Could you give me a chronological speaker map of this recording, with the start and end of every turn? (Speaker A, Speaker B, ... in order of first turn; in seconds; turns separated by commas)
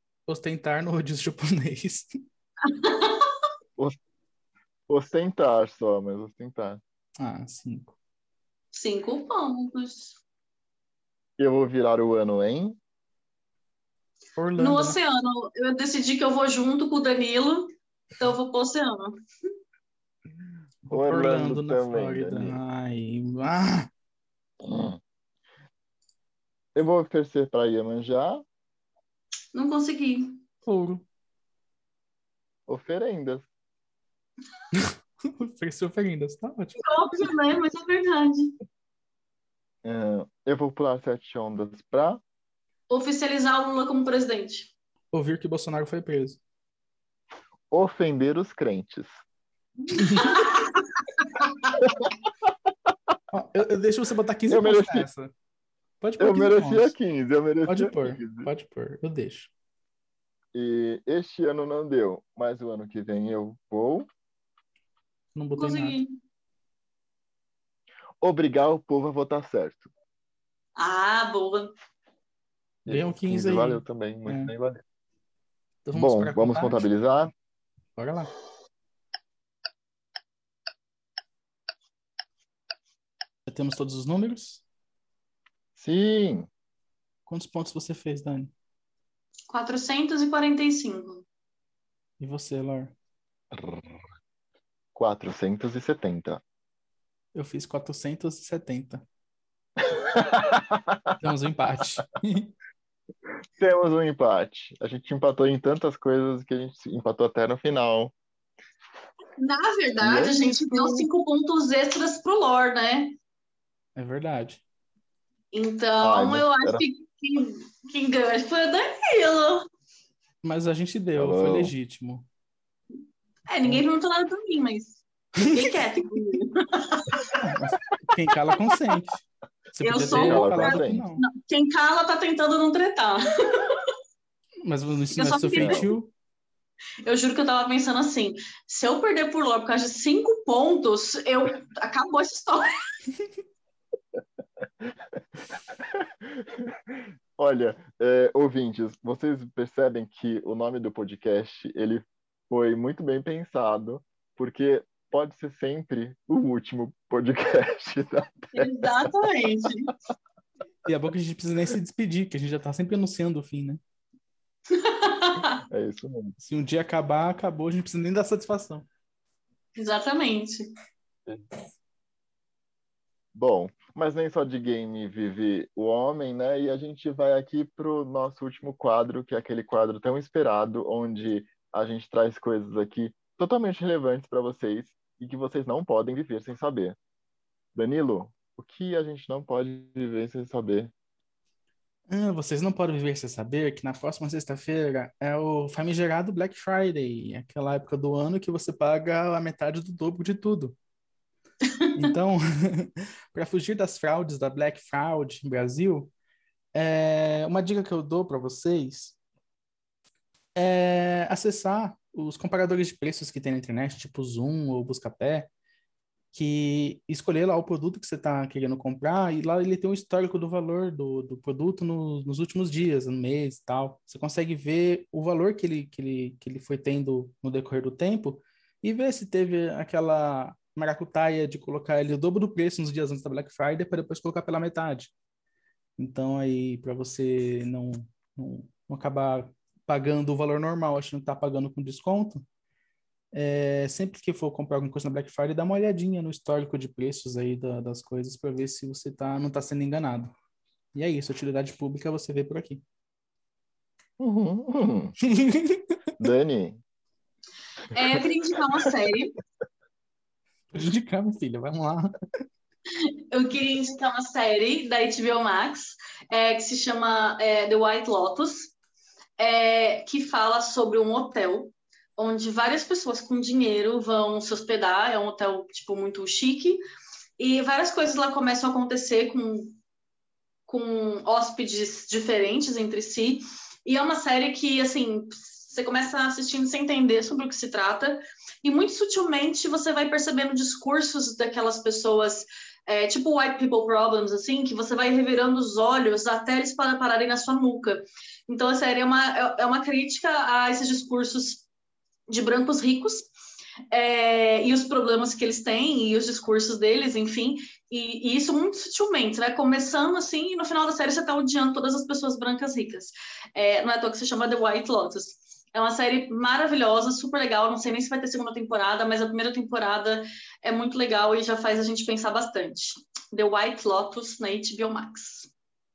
Speaker A: 0.3-2.1, Speaker B: 2.6-3.3, Speaker C: 4.9-6.8, Speaker A: 7.2-8.0, Speaker B: 8.7-10.2, Speaker C: 11.4-12.8, Speaker A: 14.4-15.0, Speaker B: 14.6-19.2, Speaker A: 20.8-23.9, Speaker C: 20.9-22.6, Speaker C: 24.6-25.0, Speaker C: 26.8-28.4, Speaker B: 29.5-30.4, Speaker A: 30.6-31.0, Speaker C: 32.7-33.5, Speaker A: 34.7-36.9, Speaker B: 36.8-38.5, Speaker C: 39.8-42.2, Speaker B: 42.9-44.7, Speaker A: 45.1-46.4, Speaker C: 47.7-49.1, Speaker B: 49.9-51.8, Speaker A: 49.9-50.4, Speaker C: 51.8-52.1, Speaker A: 53.3-55.3, Speaker C: 54.5-55.1, Speaker A: 56.0-56.9, Speaker C: 56.2-58.5, Speaker A: 57.7-59.5, Speaker C: 60.5-64.1, Speaker A: 65.3-66.0, Speaker B: 65.6-66.2, Speaker C: 68.2-69.9, Speaker B: 70.8-71.7, Speaker C: 72.9-74.8, Speaker A: 72.9-74.5, Speaker A: 75.8-76.9, Speaker C: 75.9-77.3, Speaker A: 78.0-78.3, Speaker A: 83.5-84.6, Speaker C: 85.8-86.5, Speaker A: 87.3-88.5, Speaker B: 89.5-91.3, Speaker A: 92.2-92.9, Speaker C: 93.5-94.0, Speaker C: 95.0-96.4, Speaker A: 97.3-99.0, Speaker C: 99.8-101.2, Speaker A: 101.2-102.5, Speaker C: 103.6-108.1, Speaker B: 109.4-113.2, Speaker C: 110.0-111.1, Speaker A: 114.0-114.6, Speaker B: 115.5-119.7, Speaker C: 116.0-116.8, Speaker A: 120.4-122.3, Speaker C: 121.2-121.7, Speaker B: 123.5-127.5, Speaker A: 127.3-129.2, Speaker A: 129.8-131.2, Speaker B: 129.8-133.9, Speaker C: 130.1-131.1, Speaker A: 134.7-136.1, Speaker B: 135.2-135.9, Speaker C: 135.6-135.9, Speaker B: 137.1-142.7, Speaker C: 145.8-159.1, Speaker B: 158.5-159.9, Speaker A: 160.8-163.8, Speaker B: 164.7-165.6, Speaker C: 165.7-166.4, Speaker A: 166.4-168.9, Speaker B: 169.8-170.7, Speaker C: 171.3-171.5, Speaker C: 173.3-187.0, Speaker C: 187.8-190.9, Speaker A: 192.1-200.8, Speaker B: 201.6-202.1, Speaker A: 202.0-206.1, Speaker A: 206.7-209.2, Speaker A: 210.6-215.5, Speaker A: 216.3-235.1, Speaker A: 236.0-242.4, Speaker A: 243.3-250.3, Speaker A: 250.9-252.8, Speaker C: 254.2-255.2, Speaker A: 255.2-256.0, Speaker C: 256.2-256.8, Speaker B: 257.9-259.4, Speaker A: 260.7-262.1, Speaker B: 263.3-268.7, Speaker B: 269.4-276.8, Speaker B: 277.4-279.8, Speaker B: 280.7-301.7, Speaker B: 302.3-303.3, Speaker B: 303.9-325.5